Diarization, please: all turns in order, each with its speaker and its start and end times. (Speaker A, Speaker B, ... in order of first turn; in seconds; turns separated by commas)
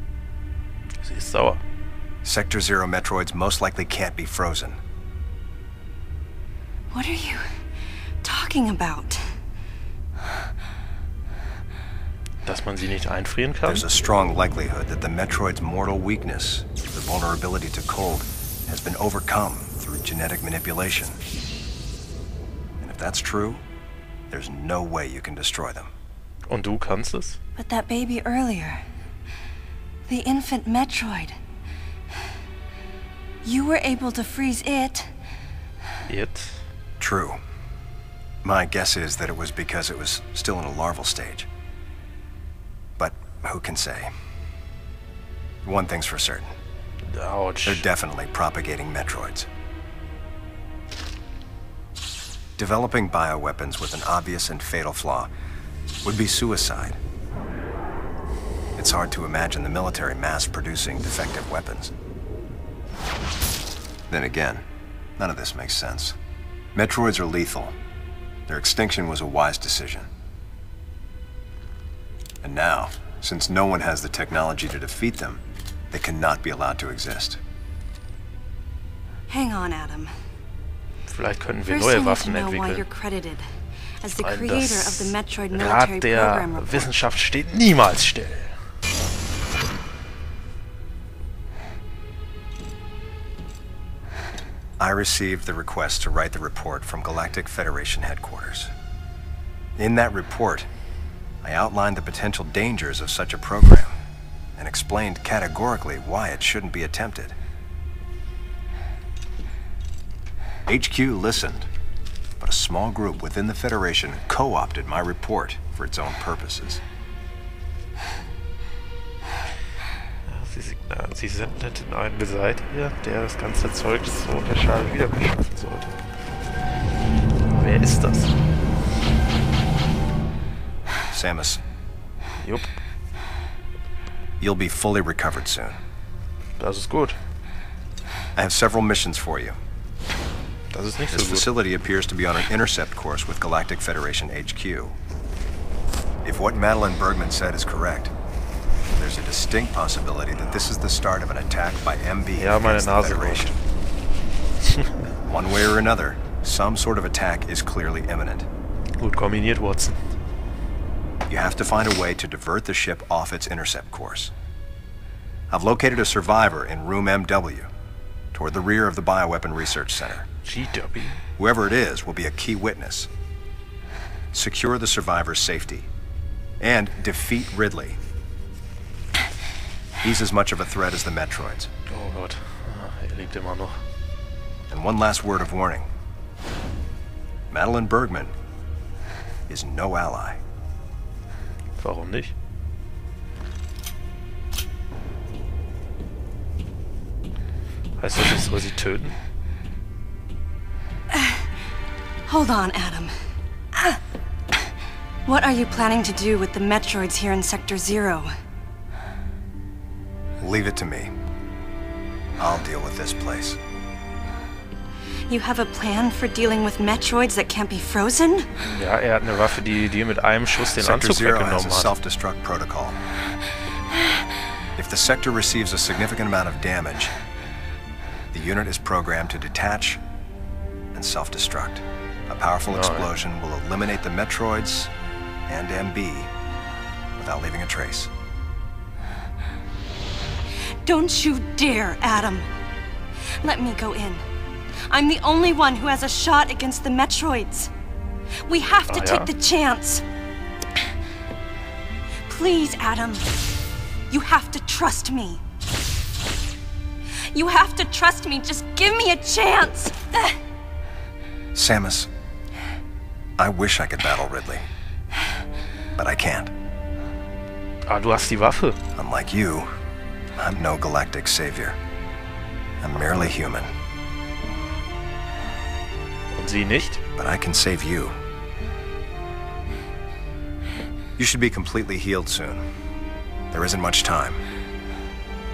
Speaker A: 1.0-1.6, Speaker B: 2.2-4.8, Speaker C: 6.9-7.5, Speaker C: 8.2-9.3, Speaker A: 12.4-13.9, Speaker B: 13.7-21.2, Speaker B: 22.8-23.6, Speaker B: 24.3-25.9, Speaker A: 26.5-27.4, Speaker C: 27.6-28.8, Speaker C: 30.1-31.4, Speaker C: 33.4-35.1, Speaker A: 36.1-36.6, Speaker B: 37.0-37.4, Speaker B: 38.4-41.5, Speaker B: 43.0-44.1, Speaker B: 45.6-46.5, Speaker A: 47.1-47.9, Speaker B: 47.6-49.5, Speaker B: 52.6-55.3, Speaker B: 56.0-57.0, Speaker B: 58.8-61.9, Speaker B: 64.1-64.6, Speaker B: 65.2-66.2, Speaker B: 66.8-67.8, Speaker B: 68.5-70.1, Speaker B: 72.4-77.4, Speaker C: 79.3-80.1, Speaker A: 81.1-82.8, Speaker C: 81.7-83.4, Speaker C: 84.0-86.9, Speaker A: 84.2-88.6, Speaker B: 94.8-98.7, Speaker B: 99.8-100.7, Speaker B: 101.4-104.0, Speaker B: 104.6-107.4, Speaker B: 110.7-111.7, Speaker B: 112.4-116.8, Speaker A: 120.2-125.9, Speaker A: 127.5-128.3, Speaker B: 131.1-131.6, Speaker A: 132.4-132.7, Speaker B: 134.4-135.8, Speaker A: 136.6-137.2, Speaker B: 138.4-139.6, Speaker A: 140.7-141.5, Speaker B: 141.1-144.9, Speaker B: 146.2-148.1, Speaker B: 149.0-153.6, Speaker A: 152.4-153.6, Speaker B: 155.2-158.5, Speaker A: 159.0-160.0, Speaker B: 161.3-164.3, Speaker B: 165.5-167.7, Speaker B: 168.3-170.3, Speaker A: 170.4-171.2, Speaker B: 171.4-173.1, Speaker B: 174.3-175.9, Speaker B: 176.6-178.0, Speaker B: 180.0-181.7, Speaker A: 181.9-183.8, Speaker B: 184.7-185.9, Speaker B: 187.5-188.3, Speaker B: 189.5-190.4, Speaker A: 191.8-192.3, Speaker A: 198.0-199.2, Speaker C: 201.1-201.5, Speaker C: 202.3-203.1, Speaker C: 203.7-204.0, Speaker C: 205.2-208.3, Speaker B: 210.4-211.1, Speaker B: 212.4-213.6, Speaker C: 215.3-218.5, Speaker A: 218.6-221.9, Speaker B: 220.8-223.0, Speaker B: 224.8-227.1, Speaker B: 228.3-230.0, Speaker B: 230.9-234.9, Speaker A: 232.7-233.1, Speaker B: 235.5-236.3, Speaker B: 237.2-238.1, Speaker C: 240.8-242.5, Speaker C: 243.4-244.2, Speaker C: 244.9-247.7, Speaker C: 248.4-250.0, Speaker A: 248.9-249.3, Speaker C: 252.2-253.2, Speaker C: 254.1-255.4, Speaker C: 257.3-260.4, Speaker B: 261.5-262.1, Speaker B: 263.4-264.7, Speaker B: 266.0-266.5, Speaker A: 267.9-268.8, Speaker B: 269.0-269.7, Speaker B: 270.4-271.8, Speaker B: 272.8-273.7, Speaker A: 273.0-273.3, Speaker A: 276.3-277.0, Speaker B: 277.1-278.1, Speaker B: 281.2-282.6, Speaker B: 283.5-284.4